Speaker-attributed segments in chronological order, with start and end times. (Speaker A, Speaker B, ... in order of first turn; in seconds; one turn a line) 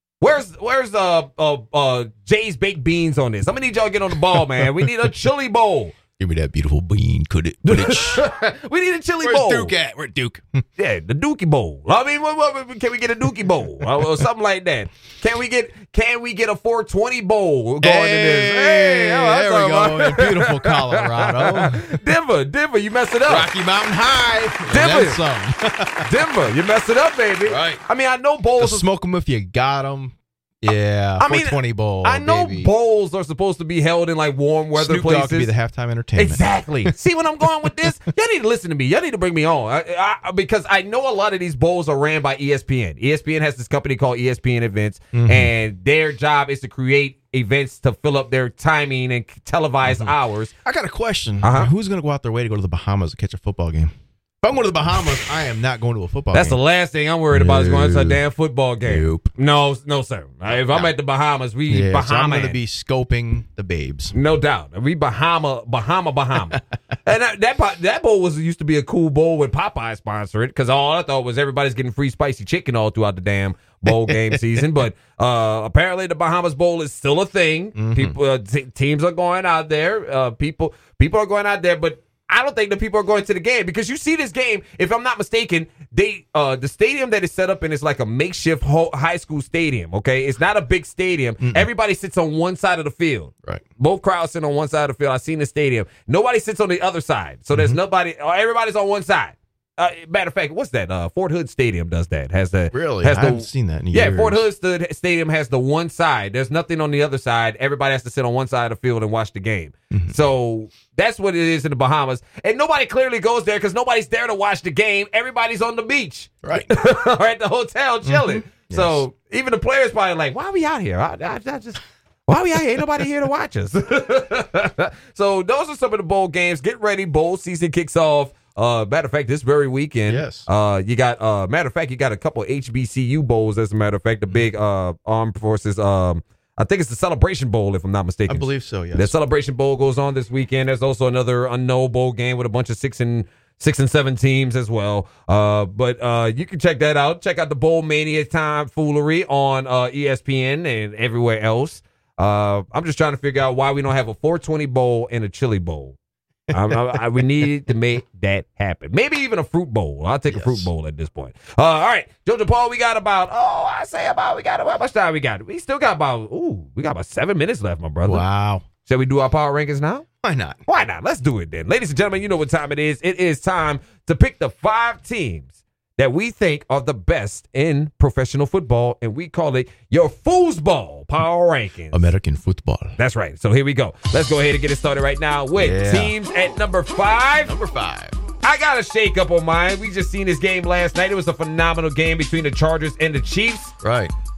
Speaker A: 0.2-6.0
Speaker B: 4.3-5.0
Speaker B: 6.2-8.3
Speaker A: 7.7-9.7
Speaker B: 9.2-10.6
Speaker A: 10.8-23.5
Speaker B: 13.4-14.1
Speaker B: 17.8-22.0
Speaker B: 23.3-26.1
Speaker A: 24.7-25.2
Speaker A: 26.0-28.9
Speaker B: 27.5-27.8
Speaker B: 28.6-32.7
Speaker A: 31.2-35.5
Speaker B: 34.8-36.9
Speaker A: 36.2-50.5
Speaker B: 37.6-37.9
Speaker B: 45.1-45.5
Speaker B: 49.8-56.6
Speaker A: 51.4-51.7
Speaker A: 56.3-62.6
Speaker B: 57.3-58.2
Speaker B: 58.8-59.3
Speaker B: 60.5-60.9
Speaker B: 61.7-64.1
Speaker A: 64.1-156.0
Speaker B: 73.9-74.6
Speaker B: 77.8-78.2
Speaker B: 91.4-91.7
Speaker B: 97.5-97.8
Speaker B: 102.7-104.5
Speaker B: 109.9-110.2
Speaker B: 116.4-116.7
Speaker B: 118.0-119.0
Speaker B: 130.1-130.5
Speaker B: 138.3-139.2
Speaker A: 156.5-168.3
Speaker B: 156.7-157.0
Speaker B: 160.3-160.7
Speaker B: 168.0-168.7
Speaker A: 168.8-170.1
Speaker B: 170.2-170.6
Speaker A: 170.7-182.1
Speaker B: 181.9-182.9
Speaker A: 183.0-187.5
Speaker B: 185.6-186.2
Speaker B: 187.4-188.2
Speaker A: 188.4-193.8
Speaker B: 193.8-194.1